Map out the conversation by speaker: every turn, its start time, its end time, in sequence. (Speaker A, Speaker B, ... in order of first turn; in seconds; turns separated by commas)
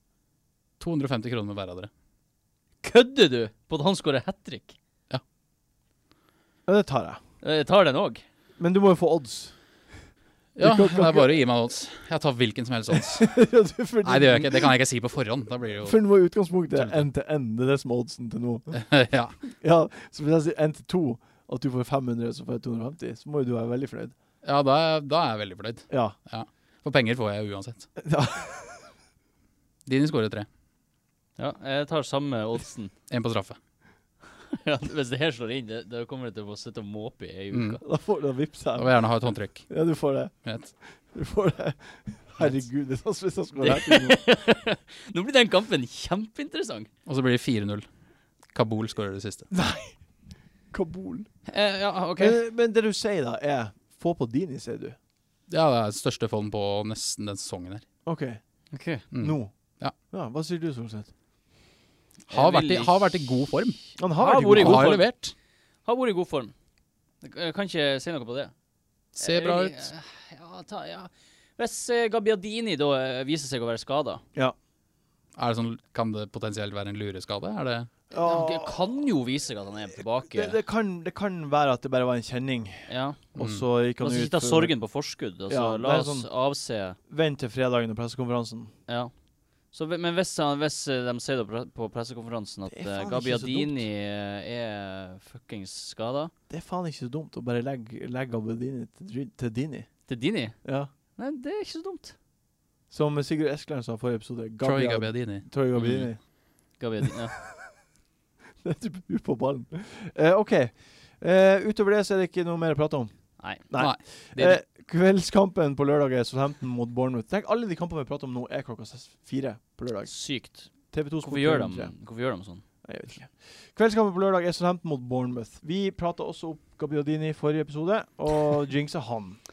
Speaker A: 0.8-1.9, Speaker B: 2.8-4.8, Speaker C: 6.7-7.2, Speaker B: 7.4-8.2, Speaker C: 8.6-9.5, Speaker A: 10.6-13.4, Speaker C: 10.6-11.4, Speaker C: 12.9-14.7, Speaker A: 14.0-16.0, Speaker C: 15.8-18.9, Speaker A: 16.7-17.1, Speaker A: 18.7-19.4, Speaker C: 19.4-24.1, Speaker A: 24.4-27.9, Speaker C: 25.9-26.1, Speaker C: 28.0-28.9, Speaker A: 29.9-30.5, Speaker B: 31.4-32.9, Speaker A: 33.1-33.6, Speaker B: 34.5-37.8, Speaker A: 37.5-37.8, Speaker C: 37.8-38.9, Speaker A: 38.7-39.7, Speaker C: 39.7-40.3, Speaker A: 40.4-40.7, Speaker C: 41.1-44.2, Speaker B: 43.6-46.9, Speaker A: 47.0-47.9, Speaker A: 48.5-49.5, Speaker C: 49.5-50.0, Speaker C: 50.7-51.3, Speaker B: 51.5-52.4, Speaker C: 52.2-55.0, Speaker A: 55.5-57.8, Speaker C: 58.0-58.4, Speaker B: 58.7-59.0, Speaker A: 59.1-59.9, Speaker C: 59.1-59.5, Speaker C: 60.1-61.1, Speaker A: 62.3-63.8, Speaker B: 62.3-62.9, Speaker C: 64.0-65.0, Speaker B: 64.2-65.1, Speaker A: 64.4-65.3, Speaker B: 65.8-66.5, Speaker B: 67.2-68.5, Speaker A: 69.2-69.9, Speaker B: 69.2-74.2, Speaker A: 75.3-77.9, Speaker C: 78.1-78.8, Speaker B: 78.2-80.6, Speaker C: 80.3-84.7, Speaker B: 82.9-83.2, Speaker A: 83.3-83.6, Speaker B: 84.0-87.0, Speaker C: 85.5-86.3, Speaker C: 87.1-88.7, Speaker B: 88.9-89.1, Speaker B: 89.7-96.3, Speaker C: 92.7-93.8, Speaker C: 96.5-99.9, Speaker B: 100.1-100.6, Speaker C: 100.6-100.9, Speaker B: 101.1-102.1, Speaker C: 102.9-106.2, Speaker A: 104.6-105.5, Speaker B: 105.8-106.1, Speaker B: 106.8-107.4, Speaker C: 107.4-107.8, Speaker C: 108.6-120.1, Speaker B: 113.4-113.6, Speaker A: 113.7-114.6, Speaker B: 120.0-122.6, Speaker C: 120.9-121.9, Speaker C: 122.8-129.4